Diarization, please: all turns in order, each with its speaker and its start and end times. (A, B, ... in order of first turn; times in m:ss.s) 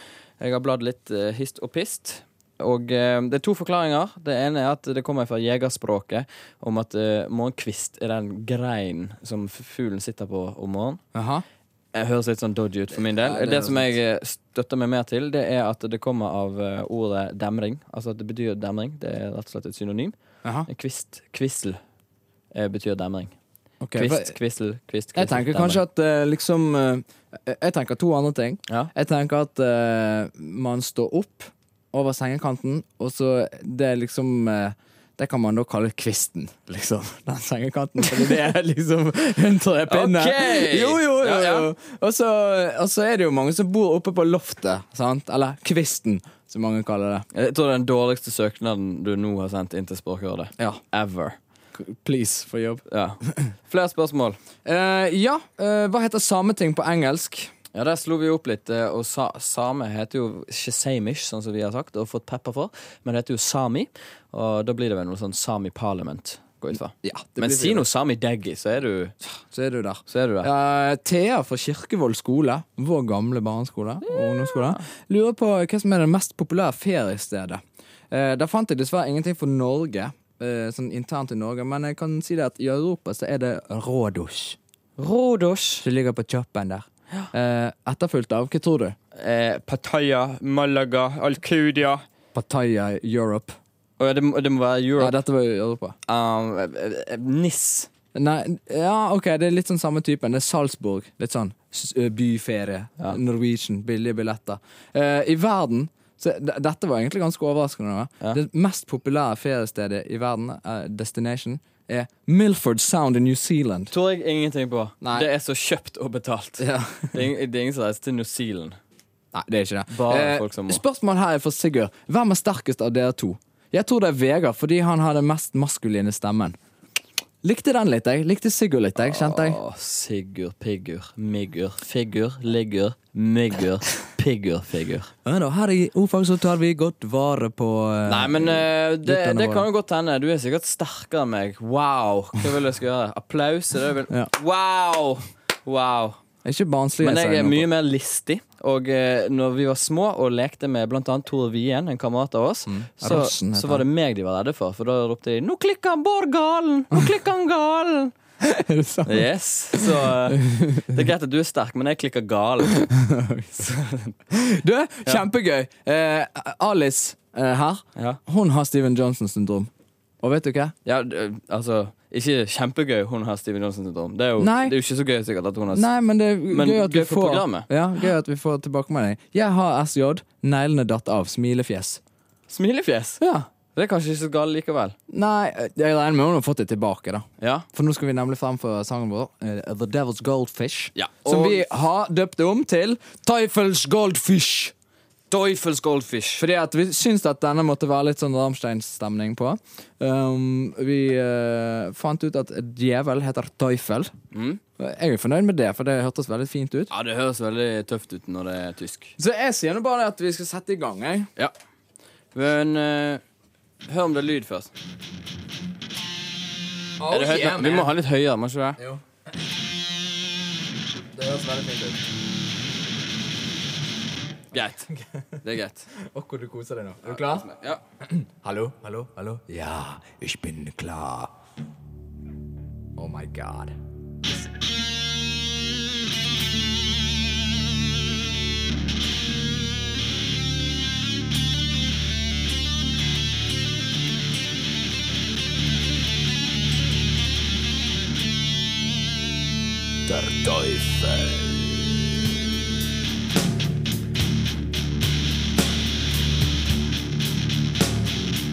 0:00.4-0:11.0 A
0:11.1-0:11.4 B
0:11.9-0:20.2 A
0:13.0-0:14.0 B
0:20.7-0:21.8 A
0:22.5-0:23.3 A
0:23.8-0:24.4 B
0:24.0-0:25.8 A
0:25.2-0:47.3 B
0:39.9-0:41.7 A
0:47.3-0:51.4 A
0:51.8-0:52.8 B
0:52.9-0:54.4 A
0:54.6-0:57.5 B
0:57.7-1:09.2 A
1:07.0-1:07.9 B
1:09.5-1:24.6 B
1:10.1-1:10.5 A
1:14.4-1:14.7 A
1:25.0-1:25.9 A
1:25.8-1:29.0 B
1:29.2-1:32.0 A
1:32.3-1:33.6 B
1:34.0-1:35.2 A
1:35.0-1:36.0 B
1:36.1-1:37.9 A
1:38.1-1:53.9 B
1:53.9-1:58.8 A
1:55.0-1:55.3 B
1:56.6-1:57.2 B
1:59.3-2:06.6 B
1:59.9-2:00.8 A
2:07.4-2:09.6 B
2:09.0-2:15.1 A
2:15.2-2:19.7 B
2:18.1-2:26.2 A
2:26.4-2:27.7 B
2:27.0-2:38.1 A
2:32.7-2:33.8 B
2:38.4-2:41.0 B
2:39.1-2:42.9 A
2:42.9-2:43.6 B
2:43.6-2:44.2 A
2:44.3-2:49.7 B
2:50.2-2:50.7 B
2:50.8-2:55.9 A
2:54.4-2:54.8 B
2:55.7-3:02.0 B
2:56.5-2:57.7 A
3:02.5-3:03.2 A
3:03.2-3:03.5 B
3:03.8-3:05.0 A
3:05.1-3:14.7 B
3:07.4-3:07.7 A
3:11.0-3:11.7 A
3:15.3-3:16.4 A
3:16.4-3:24.1 B
3:24.3-3:24.6 A
3:24.8-3:26.9 B
3:26.9-3:29.2 A
3:29.2-3:31.3 B
3:32.3-3:33.2 A
3:33.9-3:34.7 A
3:37.0-3:37.9 B
3:37.1-3:38.8 A
3:38.8-3:39.0 B
3:41.1-3:42.0 B
3:44.5-3:44.9 A
3:45.4-3:45.9 A
3:46.0-3:47.5 B
3:47.0-3:47.8 A
3:48.0-3:51.3 B
3:53.0-3:54.4 B
4:10.1-4:12.0 B